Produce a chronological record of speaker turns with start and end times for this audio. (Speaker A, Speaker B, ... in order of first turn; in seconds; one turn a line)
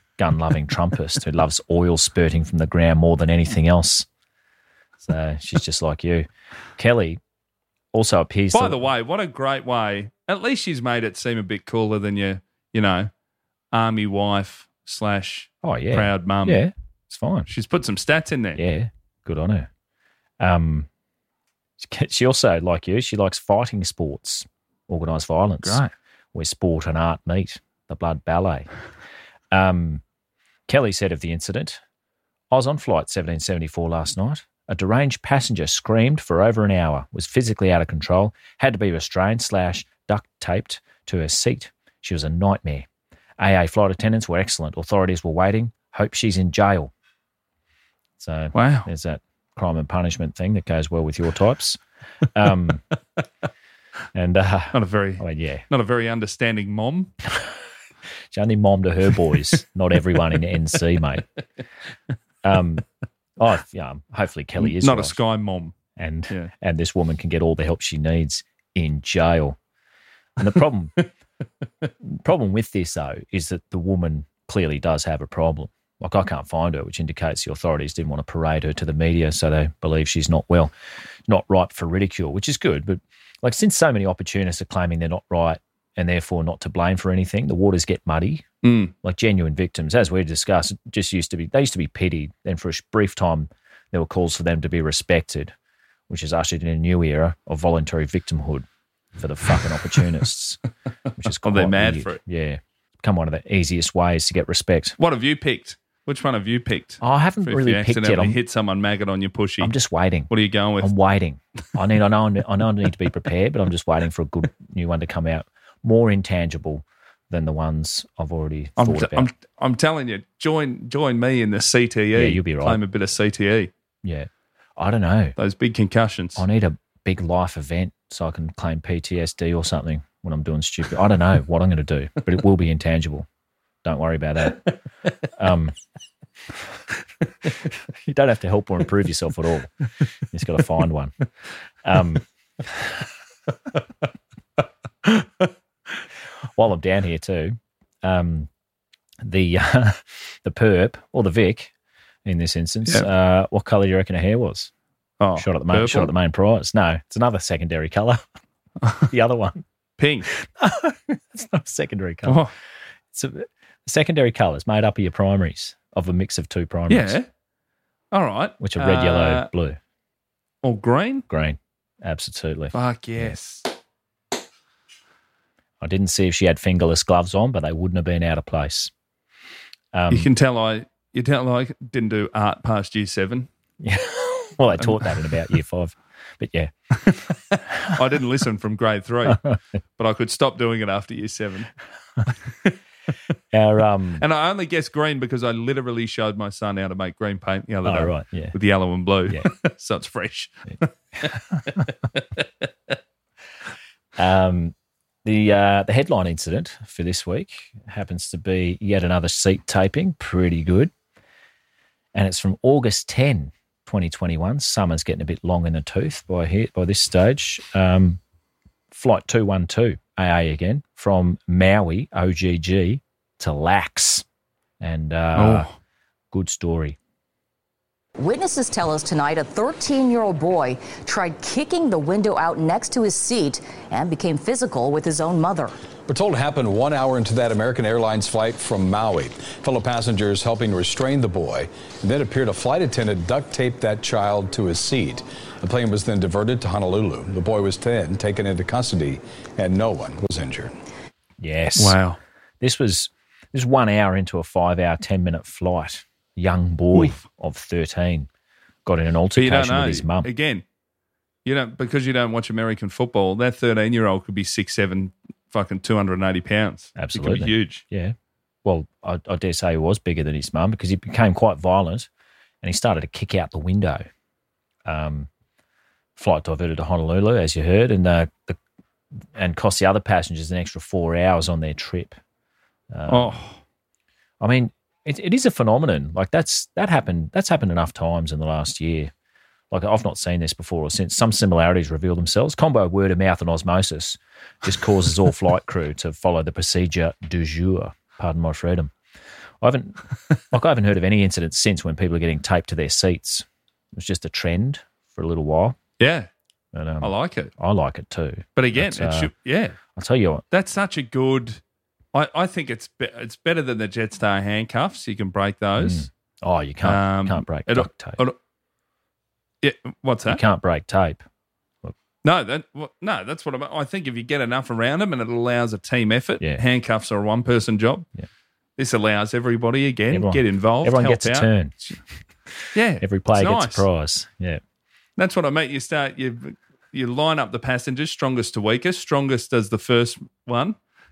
Speaker A: 0.2-4.1
Speaker A: 5.0-7.2
Speaker A: 7.9-8.8
Speaker B: 8.5-13.1
Speaker B: 13.7-16.6
Speaker A: 15.6-17.5
Speaker B: 17.5-18.6
Speaker A: 18.6-19.7
Speaker A: 20.4-20.9
Speaker A: 21.8-25.8
Speaker B: 25.6-25.9
Speaker A: 26.3-28.7
Speaker A: 29.5-30.0
Speaker A: 30.7-31.8
Speaker A: 32.5-42.9
Speaker A: 43.4-46.9
Speaker A: 48.2-51.8
Speaker B: 48.5-48.9
Speaker A: 52.3-52.8
Speaker A: 54.1-55.6
Speaker B: 54.7-57.1
Speaker A: 57.3-57.5
Speaker A: 58.3-61.2
Speaker A: 62.4-62.9
Speaker A: 63.4-65.2
Speaker B: 64.6-65.7
Speaker A: 66.0-69.6
Speaker A: 70.4-71.0
Speaker A: 72.0-80.7
Speaker A: 81.3-88.5
Speaker B: 88.6-88.9
Speaker A: 89.0-95.5
Speaker A: 96.1-98.7
Speaker A: 99.2-100.6
Speaker A: 101.2-105.0
Speaker B: 101.3-102.2
Speaker B: 105.0-109.7
Speaker A: 107.0-108.4
Speaker A: 109.6-119.3
Speaker B: 110.3-110.9
Speaker B: 118.8-123.7
Speaker A: 122.1-122.8
Speaker A: 124.0-125.3
Speaker B: 125.4-126.4
Speaker A: 126.3-133.3
Speaker A: 133.8-134.7
Speaker A: 135.2-135.8
Speaker A: 137.9-139.7
Speaker A: 140.3-141.1
Speaker A: 141.8-142.9
Speaker B: 145.0-145.5
Speaker A: 146.5-148.5
Speaker A: 149.2-151.7
Speaker A: 152.2-154.7
Speaker B: 155.2-156.1
Speaker A: 155.3-158.2
Speaker A: 159.1-159.6
Speaker B: 160.0-160.3
Speaker A: 160.3-162.5
Speaker B: 162.2-162.5
Speaker A: 163.1-167.2
Speaker B: 166.9-167.3
Speaker B: 168.1-169.5
Speaker A: 168.6-169.8
Speaker B: 170.6-171.2
Speaker A: 171.3-173.3
Speaker B: 172.7-173.7
Speaker A: 175.8-178.9
Speaker A: 179.9-180.3
Speaker B: 180.1-183.5
Speaker A: 183.8-186.7
Speaker B: 184.8-185.1
Speaker B: 187.1-189.4
Speaker A: 189.3-189.6
Speaker B: 190.0-191.7
Speaker B: 192.4-192.8
Speaker A: 193.5-194.2
Speaker B: 194.2-202.4
Speaker A: 197.8-198.5
Speaker A: 201.2-201.8
Speaker A: 204.2-210.9
Speaker A: 212.1-218.2
Speaker A: 218.9-224.2
Speaker A: 224.8-225.7
Speaker B: 225.3-225.7
Speaker A: 226.3-227.0
Speaker C: 228.2-235.8
Speaker D: 236.1-250.7
Speaker A: 251.4-252.0
Speaker B: 251.8-252.2
Speaker A: 252.6-258.3
Speaker B: 256.9-257.2
Speaker A: 258.9-260.3
Speaker B: 259.3-260.6
Speaker B: 261.4-267.8
Speaker A: 266.9-272.1
Speaker A: 272.6-274.1
Speaker A: 274.8-275.3
Speaker A: 276.1-278.6
Speaker A: 279.3-282.2
Speaker A: 282.9-283.4
Speaker B: 283.1-283.6
Speaker A: 284.4-289.1
Speaker A: 289.7-298.9
Speaker A: 299.6-305.8
Speaker B: 306.0-306.3
Speaker A: 306.7-309.3
Speaker B: 307.0-307.5
Speaker B: 308.6-309.8
Speaker A: 309.9-310.4
Speaker B: 310.5-311.6
Speaker B: 312.1-316.1
Speaker A: 315.8-318.2
Speaker B: 316.8-318.4
Speaker B: 319.6-320.4
Speaker A: 320.2-321.2
Speaker B: 322.2-328.1
Speaker B: 328.8-332.0
Speaker A: 330.1-331.8
Speaker B: 332.7-333.9
Speaker A: 333.0-334.6
Speaker B: 335.2-340.8